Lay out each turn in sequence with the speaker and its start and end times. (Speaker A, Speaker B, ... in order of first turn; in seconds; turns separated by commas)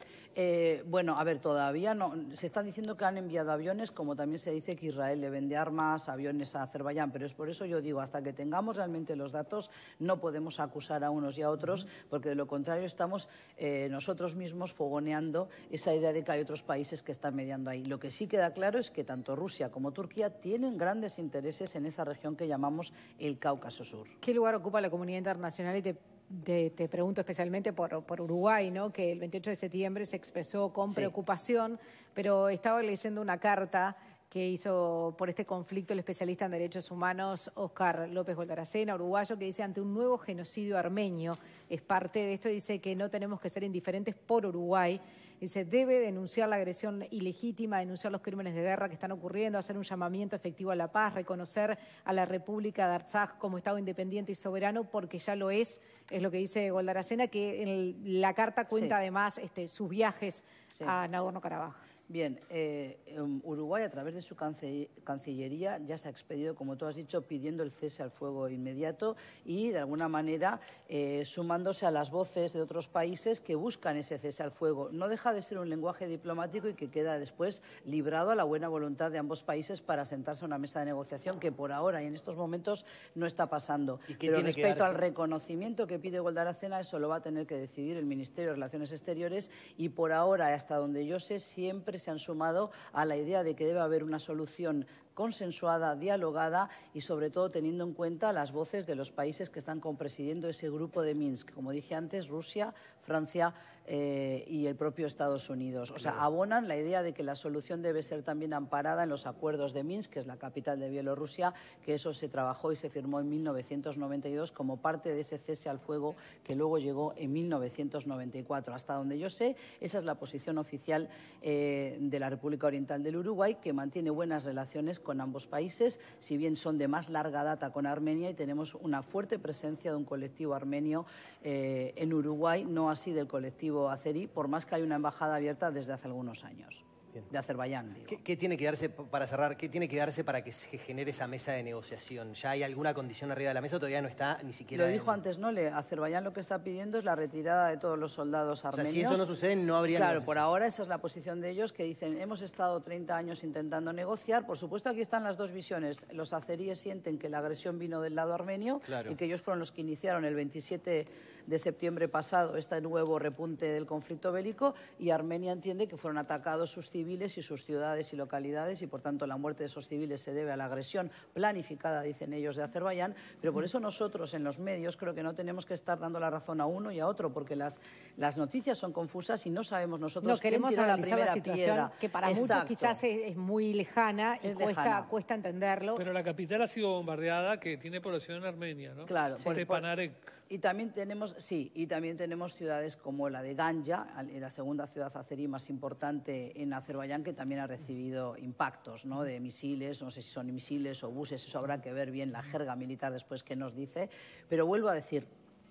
Speaker A: 0.3-24.1, Speaker B: 24.2-61.8, Speaker A: 62.1-138.2, Speaker C: 84.1-85.0, Speaker C: 138.1-145.2, Speaker A: 144.7-149.2, Speaker C: 148.7-150.4, Speaker A: 149.9-183.0, Speaker C: 158.9-159.2, Speaker B: 180.2-186.0, Speaker A: 184.4-185.1, Speaker D: 185.9-190.3, Speaker A: 189.1-189.8, Speaker A: 190.5-205.3